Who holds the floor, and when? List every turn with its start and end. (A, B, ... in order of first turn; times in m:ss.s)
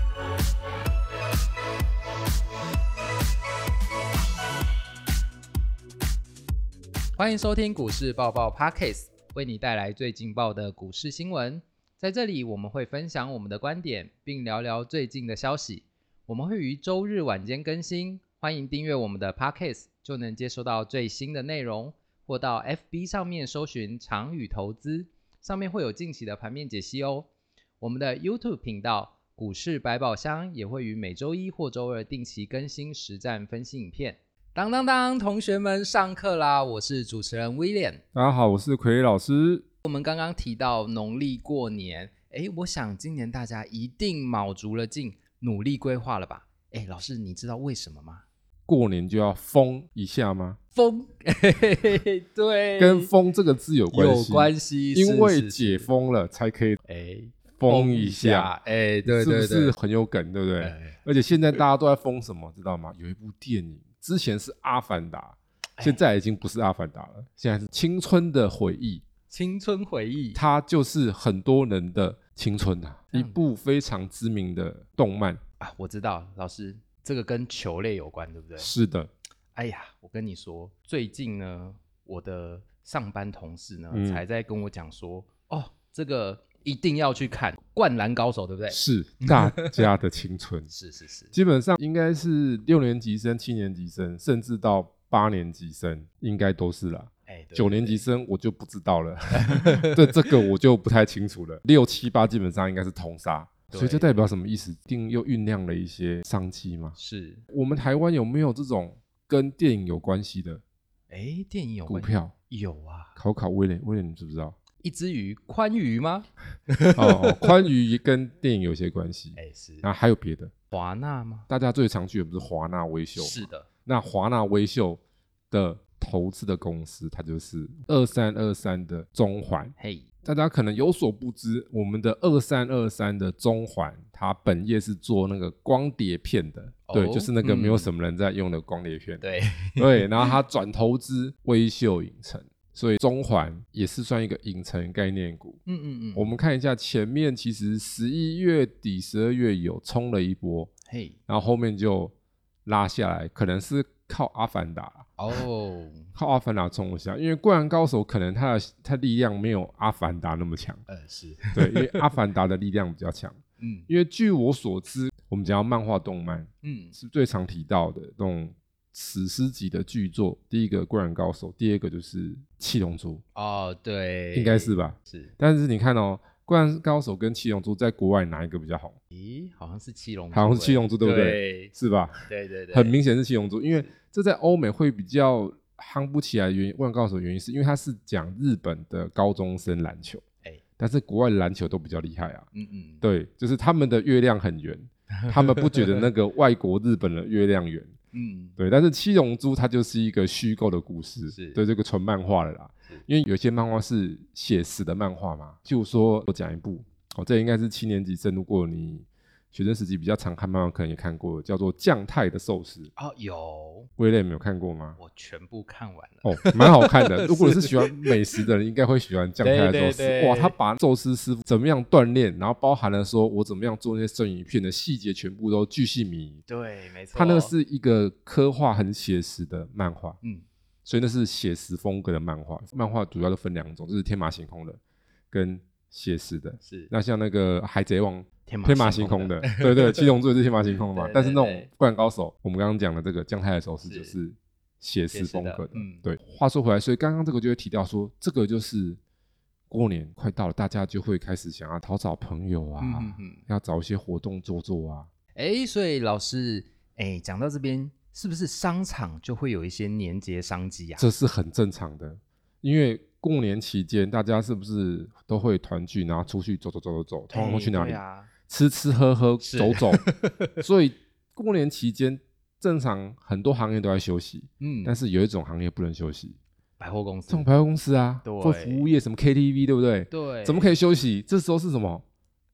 0:07.2-0:27.3 A
0:27.8-0:38.0 A
0:38.1-0:39.6 B
0:39.8-0:48.2 A
0:48.7-0:50.6 B
0:50.7-0:53.1 A
0:52.8-0:56.8 B
0:53.9-0:55.9 A
0:56.9-0:59.7 A
0:57.6-0:58.5 B
0:59.0-1:09.0 B
1:00.6-1:01.0 A
1:09.3-1:10.4 A
1:10.3-1:15.4 B
1:13.1-1:13.4 A
1:15.6-1:18.7 A
1:18.6-1:19.1 B
1:19.5-1:29.9 A
1:23.9-1:24.2 B
1:28.7-1:30.7 B
1:30.7-1:31.3 A
1:31.3-1:47.0 B
1:37.3-1:38.0 A
1:39.3-1:40.4 A
1:43.7-1:44.2 A
1:47.0-1:47.4 A
1:47.5-1:50.6 B
1:51.1-1:53.2 A
1:51.9-1:52.3 B
1:53.2-1:54.6 B
1:54.8-1:57.5 A
1:56.9-2:00.5 B
1:59.4-1:59.9 A
2:00.7-2:01.5 A
2:01.5-2:19.2 B
2:03.2-2:03.7 A
2:09.8-2:10.1 A
2:16.9-2:17.9 A
2:19.2-2:20.3 A
2:19.8-2:25.6 B
2:25.6-2:26.3 A
2:26.1-2:30.7 B
2:30.9-2:31.2 A
2:31.3-2:32.1 B
2:32.6-2:35.1 B
2:35.2-2:36.1 A
2:36.1-2:40.8 B
2:40.9-2:42.1 A
2:41.5-2:53.2 B
2:43.6-2:43.9 A
2:46.6-2:47.0 A
2:53.3-2:55.3 A
2:54.3-2:59.0 B
2:59.1-3:01.7 A
3:00.3-3:10.2 B
3:02.3-3:02.9 A
3:10.8-3:12.5 B
3:12.5-3:13.0 A
3:13.0-3:17.9 B
3:15.3-3:16.0 A
3:18.1-3:18.6 A
3:18.6-3:32.9 B
3:21.3-3:21.6 A
3:33.0-3:33.9 A
3:34.0-3:35.0 B
3:35.0-3:38.4 A
3:36.2-3:46.4 B
3:39.4-3:40.6 A
3:46.5-3:47.5 A
3:47.1-3:50.2 B
3:50.8-3:54.8 B
3:55.3-4:09.0 B
3:56.6-3:56.9 A
3:58.5-4:00.1 A
4:00.9-4:01.7 A
4:03.8-4:04.1 A
4:05.1-4:06.0 A
4:09.7-4:15.1 B
4:12.8-4:13.4 A
4:15.4-4:21.0 A
4:21.0-4:30.0 B
4:27.3-4:28.3 A
4:29.4-4:30.5 A
4:30.6-4:36.4 B
4:34.6-4:35.0 A
4:36.8-4:37.5 A
4:37.3-4:42.0 B
4:38.2-4:38.9 A
4:40.1-4:40.7 A